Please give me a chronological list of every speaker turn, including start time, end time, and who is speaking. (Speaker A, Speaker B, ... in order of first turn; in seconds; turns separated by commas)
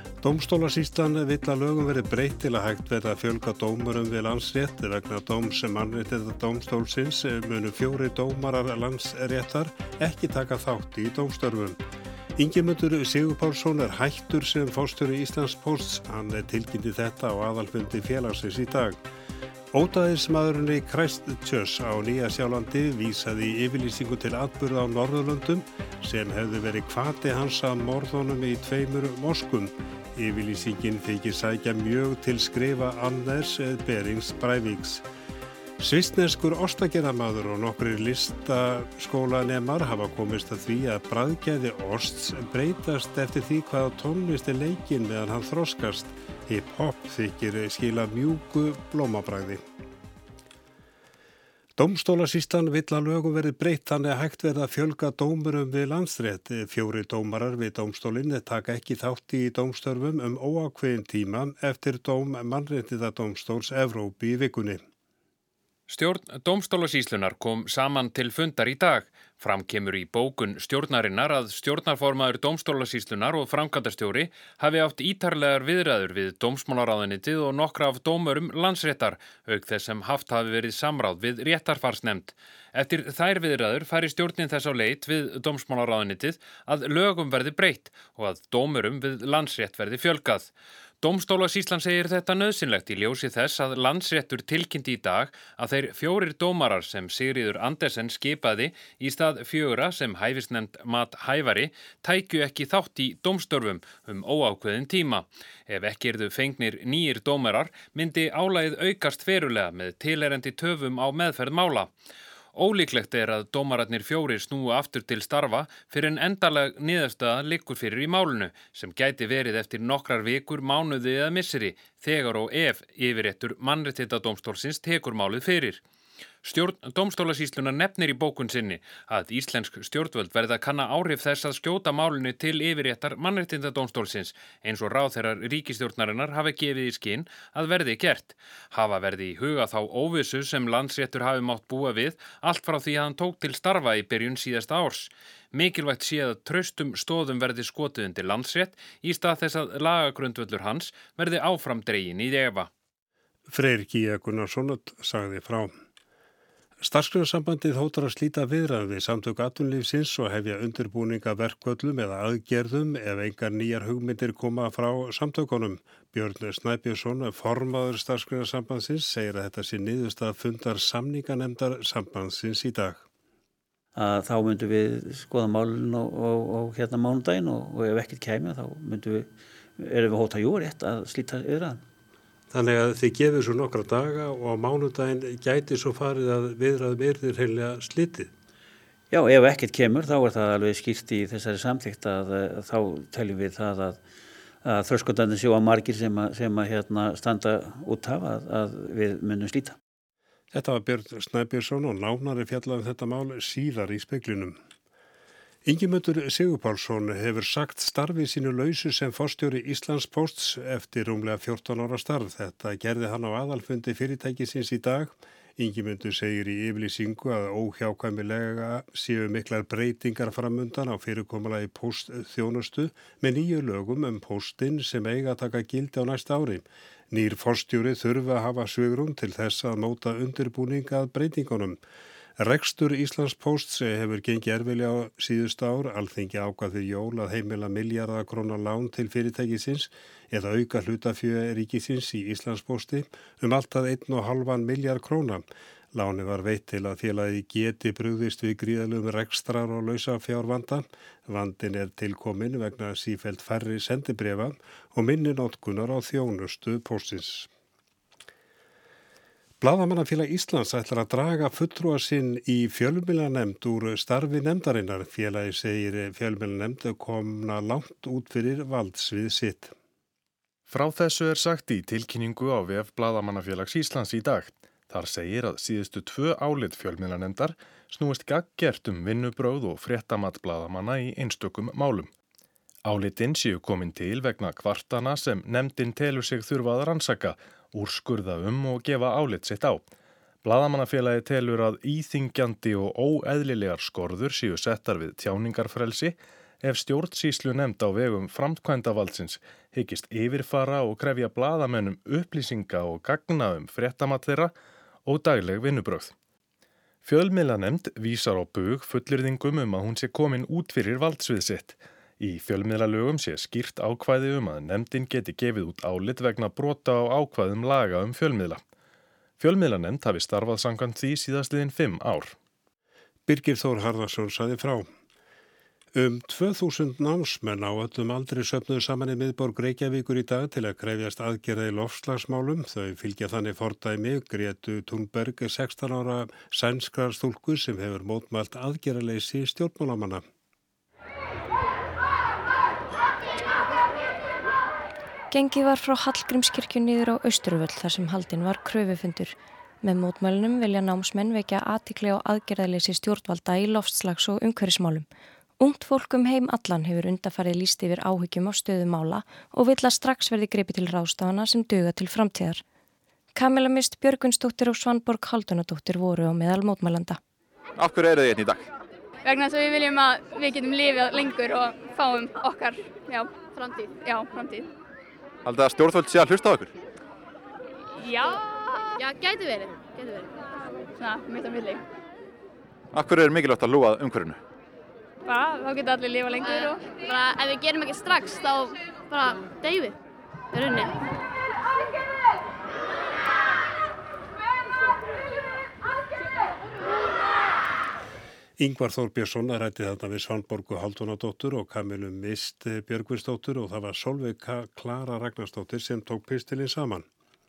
Speaker A: 0.2-11.8, Speaker A: 12.3-19.0, Speaker A: 19.7-35.0, Speaker A: 35.8-49.6, Speaker A: 51.8-64.8, Speaker B: 65.9-90.5, Speaker B: 91.0-111.9, Speaker B: 112.5-125.8, Speaker B: 126.4-152.7, Speaker A: 153.5-155.7, Speaker A: 156.8-173.0, Speaker C: 173.9-181.8, Speaker A: 182.5-188.3, Speaker C: 189.1-194.0, Speaker C: 194.6-199.8, Speaker A: 200.5-204.6, Speaker A: 205.6-231.8, Speaker A: 232.4-257.5, Speaker A: 259.6-269.7, Speaker D: 270.7-282.1, Speaker D: 282.8-289.9, Speaker D: 290.4-304.5, Speaker D: 305.0-306.1, Speaker D: 307.0-318.6, Speaker D: 319.4-322.4, Speaker A: 323.3-324.9, Speaker A: 325.9-340.2, Speaker E: 345.3-355.1, Speaker E: 355.6-362.6, Speaker E: 363.3-367.2, Speaker F: 367.8-368.6, Speaker G: 369.2-374.7, Speaker F: 375.4-376.7, Speaker G: 377.9-380.4, Speaker G: 380.9-381.8, Speaker F: 382.9-384.4, Speaker G: 385.2-389.9, Speaker G: 390.5-391.0, Speaker A: 398.6-407.1